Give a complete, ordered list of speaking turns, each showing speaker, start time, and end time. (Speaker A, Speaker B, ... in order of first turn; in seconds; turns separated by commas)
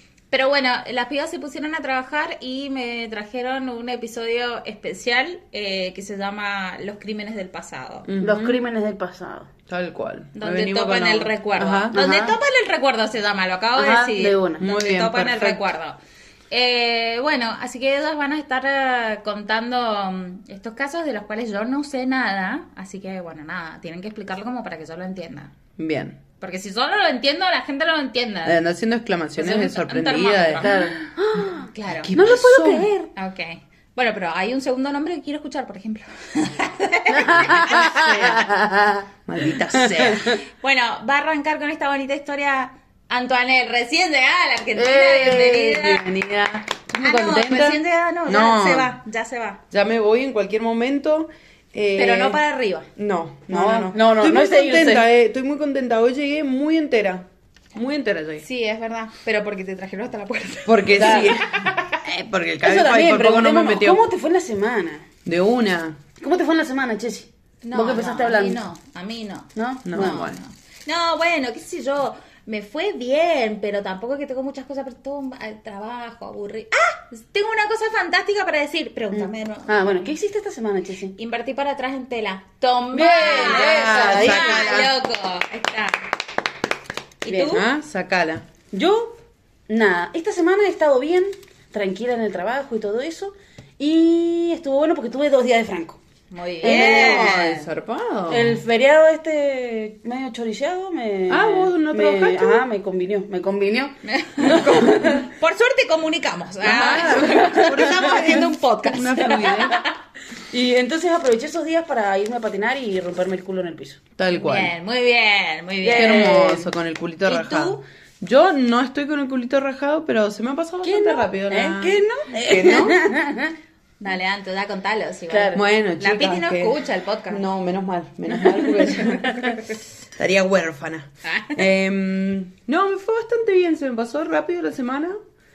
Speaker A: 0.3-8.1, Speaker B: 8.1-8.6, Speaker C: 8.2-9.5, Speaker B: 9.7-11.9, Speaker A: 10.3-16.0, Speaker C: 11.9-12.4, Speaker C: 13.8-14.7, Speaker B: 14.6-15.6, Speaker A: 16.5-25.5, Speaker B: 25.8-26.2, Speaker A: 26.4-28.6, Speaker B: 28.4-30.9, Speaker A: 29.4-30.8, Speaker C: 30.6-33.1, Speaker B: 31.4-32.9, Speaker A: 31.7-32.1, Speaker A: 33.1-38.4, Speaker C: 37.1-39.0, Speaker B: 37.5-38.5, Speaker B: 39.2-40.4, Speaker C: 39.7-40.3, Speaker A: 40.3-46.1, Speaker C: 44.7-46.0, Speaker B: 45.8-49.0, Speaker A: 47.0-49.6, Speaker B: 49.7-52.4, Speaker A: 52.0-52.9, Speaker B: 53.0-58.4, Speaker C: 53.5-55.0, Speaker A: 58.4-62.0, Speaker B: 60.6-64.0, Speaker C: 60.9-61.3, Speaker C: 62.6-65.0, Speaker B: 65.2-66.0, Speaker C: 66.2-68.6, Speaker A: 67.6-80.1, Speaker C: 69.5-70.3, Speaker B: 69.8-70.4, Speaker C: 79.1-81.1, Speaker A: 81.2-86.1, Speaker C: 82.9-84.8, Speaker B: 83.2-84.9, Speaker A: 87.2-87.6, Speaker C: 87.3-87.6, Speaker B: 87.5-88.5, Speaker C: 88.7-89.2, Speaker C: 89.7-96.0, Speaker A: 96.3-97.7, Speaker C: 96.6-97.4, Speaker B: 96.6-98.6, Speaker C: 98.3-105.2, Speaker B: 101.3-102.7, Speaker A: 104.0-109.9, Speaker B: 104.5-105.0, Speaker B: 106.6-109.8, Speaker C: 106.9-108.2, Speaker C: 109.3-109.6, Speaker C: 110.5-114.0, Speaker B: 114.2-114.7, Speaker A: 114.3-116.3, Speaker C: 115.8-116.7, Speaker B: 115.9-123.1, Speaker A: 117.2-117.8, Speaker C: 120.8-123.6, Speaker A: 124.0-127.4, Speaker C: 125.3-125.6, Speaker B: 125.5-129.6, Speaker A: 128.5-129.5, Speaker B: 130.2-135.2, Speaker A: 131.2-131.6